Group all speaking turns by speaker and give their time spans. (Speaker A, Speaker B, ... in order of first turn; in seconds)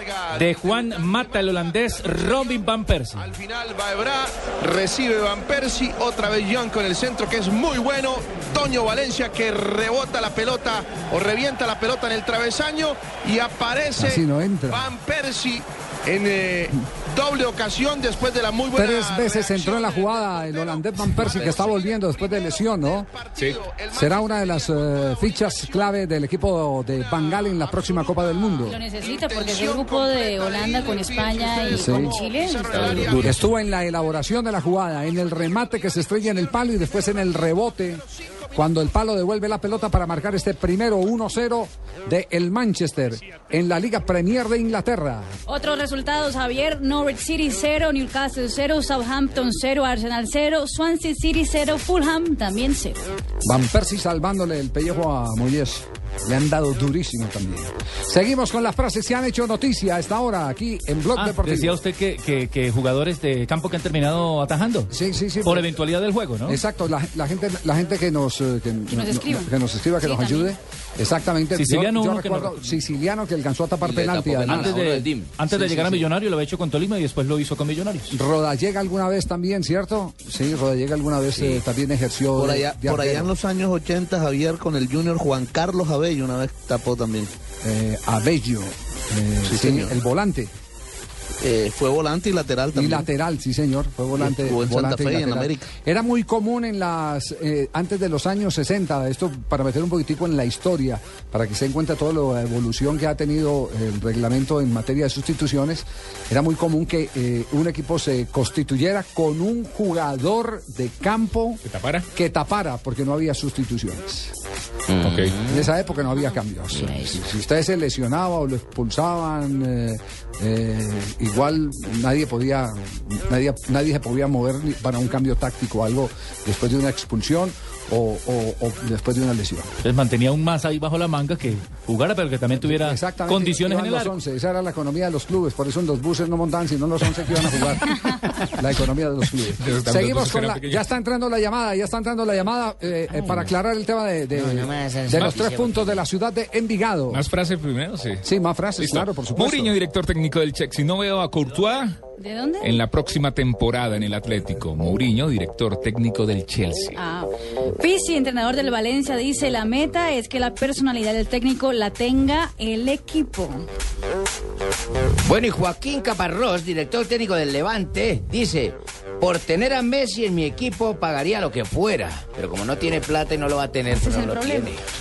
Speaker A: 0.3-3.3, 33.1-33.4, 61.2-64.9, 65.5-66.6, 71.6-72.9, 74.4-78.2, 129.8-134.1
Speaker B: 3.3-14.1, 14.8-20.1, 23.2-24.5, 29.6-30.4, 30.9-31.6
Speaker C: 13.9-14.9, 18.7-23.1, 23.9-28.8, 31.7-32.2, 32.7-38.0, 38.5-45.3, 53.4-61.8, 64.9-65.7, 66.5-74.8, 75.6-76.0, 78.1-83.3, 87.6-90.5, 92.7-111.6, 112.1-114.3, 115.5-129.7, 132.6-147.2, 148.2-149.8
Speaker D: 28.6-33.2, 45.5-53.0, 68.9-70.5, 152.2-152.8, 157.0-157.3, 157.8-163.7, 174.1-174.7
Speaker E: 73.8-75.3, 114.9-115.7, 116.7-117.2, 143.1-143.5, 144.3-146.0, 165.3-174.8
Speaker F: 82.3-87.3, 89.5-90.0, 91.4-93.1, 94.2-95.7
Speaker G: 111.6-112.1, 115.0-115.3, 139.6-140.9, 145.1-145.4, 147.1-148.2, 148.8-152.0, 152.6-157.0